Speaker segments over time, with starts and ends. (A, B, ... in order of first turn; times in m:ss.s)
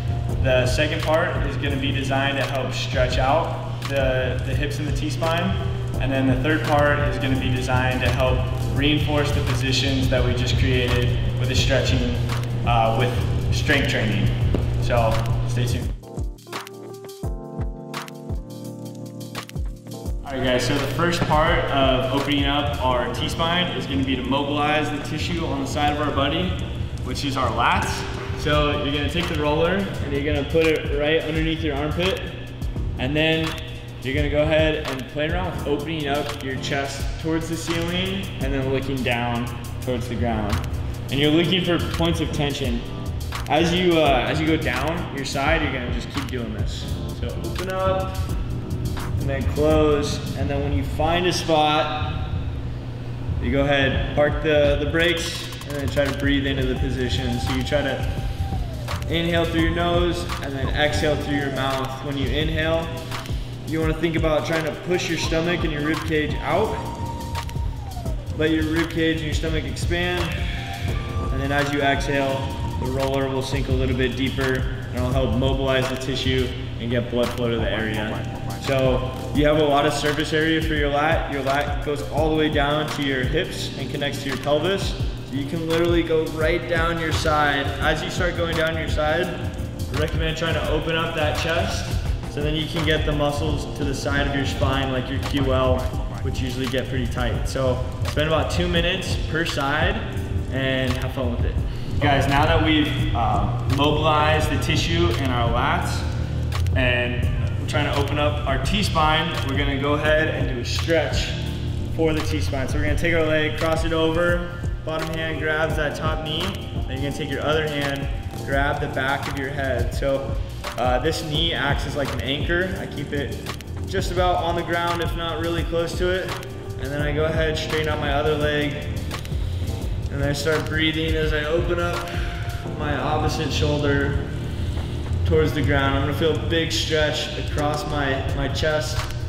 0:00.4-0:15.9 A
0:20.2-0:32.4 A
0:33.0-0:42.8 A
0:43.5-0:48.2 A
0:49.2-0:52.2 A
0:53.4-0:58.1 A
0:59.0-1:03.0 A
1:03.6-1:06.9 A
1:08.3-1:29.4 A
1:29.9-1:46.1 A
1:46.7-1:51.4 A
1:51.9-2:08.9 A
2:10.1-2:14.3 A
2:15.2-2:19.1 A